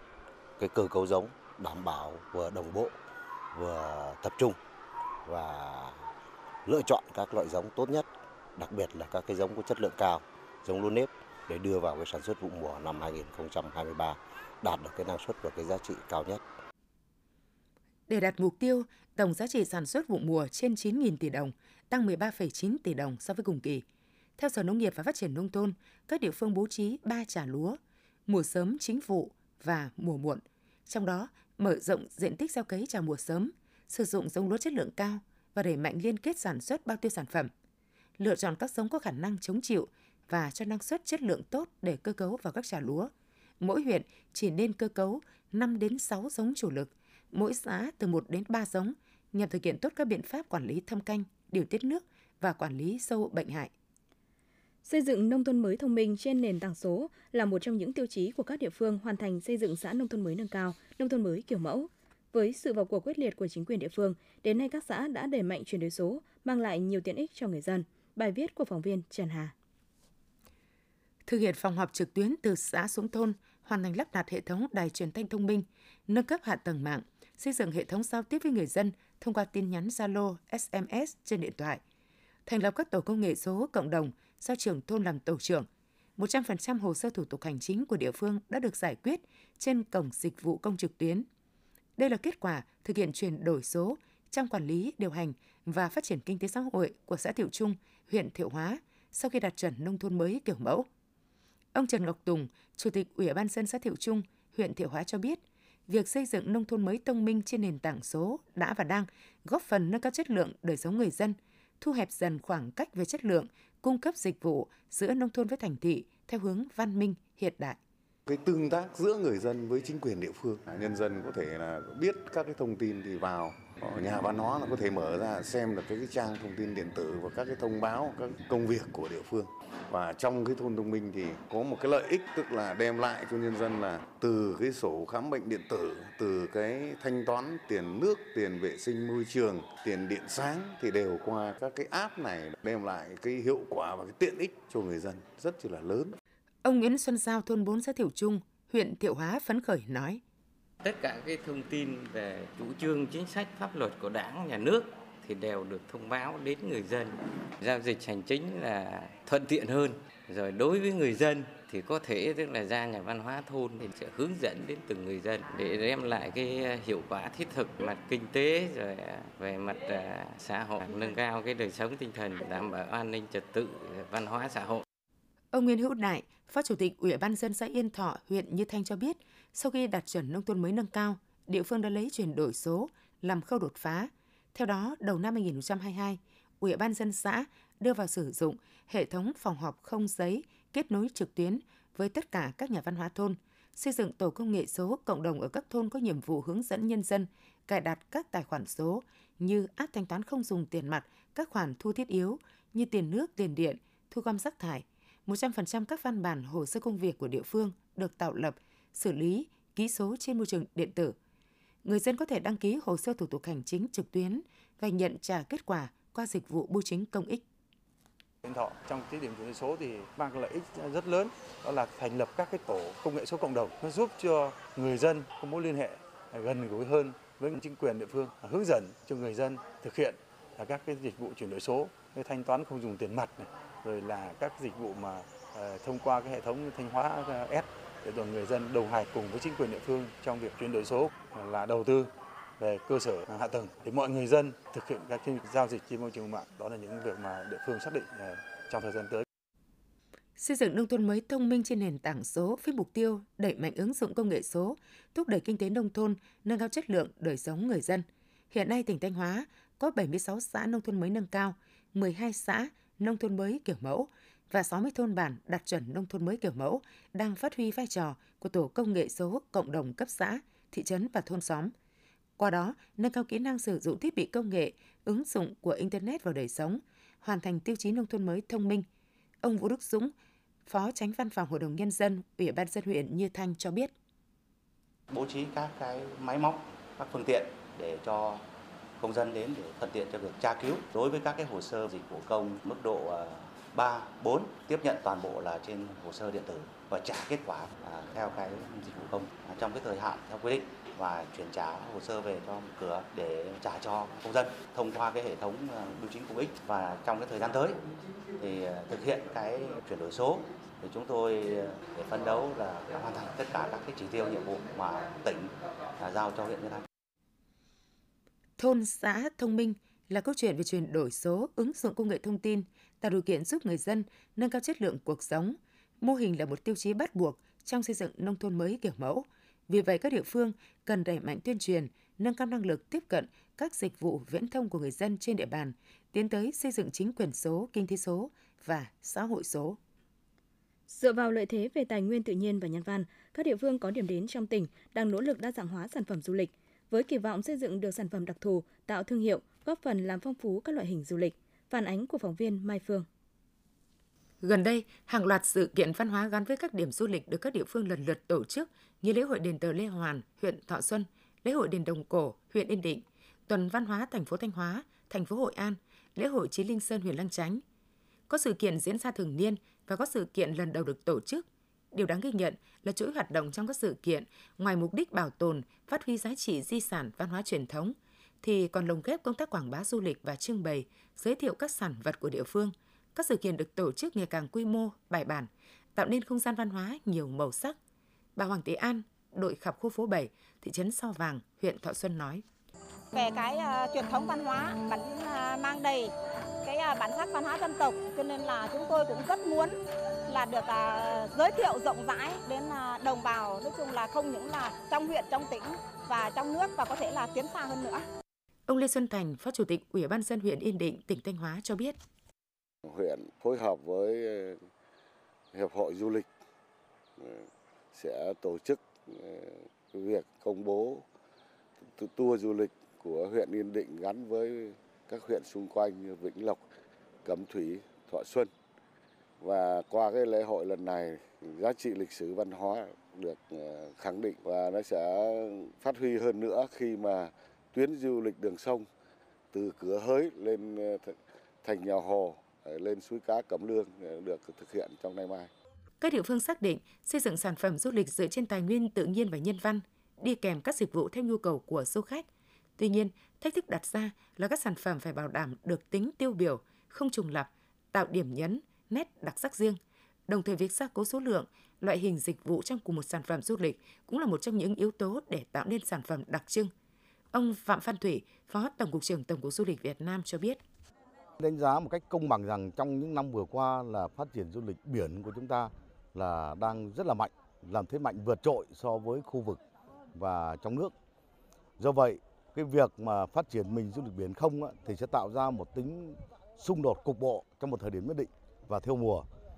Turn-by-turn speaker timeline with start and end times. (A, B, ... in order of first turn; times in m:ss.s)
0:00.6-0:02.9 A
0:03.5-0:04.6 A
0:05.3-0:06.1 A
0:06.7-0:16.4 A
0:18.1-0:23.8 B
0:24.4-0:37.5 B
0:38.2-0:53.7 B
0:54.8-1:09.5 C
1:11.3-1:21.8 B
1:22.5-1:31.3 B
1:32.0-1:40.9 B
1:41.7-1:57.8 B
1:58.3-2:26.2 D
2:26.6-2:30.2 B
2:30.8-2:54.8 E
2:55.5-3:31.2 B
3:31.8-3:37.4 B
3:38.4-4:09.2 F
4:10.4-4:31.7 B
4:32.4-4:38.9 B
4:39.4-4:40.1 B
4:40.7-4:43.9 B
4:45.1-4:48.4 G
4:49.0-5:07.8 G
5:08.4-5:16.9 G
5:18.6-5:39.8 B
5:40.9-5:53.1 C
5:54.4-6:07.6 B
6:08.3-6:27.8 B
6:28.4-6:32.4 B
6:33.1-6:36.1 H
6:36.6-6:48.1 H
6:48.7-6:52.0 B
6:52.9-6:54.7 I
6:55.5-6:56.3 I
6:57.2-7:01.1 I
7:01.8-7:06.7 I
7:07.2-7:08.5 I
7:09.4-7:18.9 I
7:19.5-7:25.5 I
7:26.0-7:32.3 B
7:32.8-7:46.7 B
7:47.3-7:50.6 B
7:51.4-7:59.6 J
8:00.1-8:00.9 J
8:01.8-8:09.3 J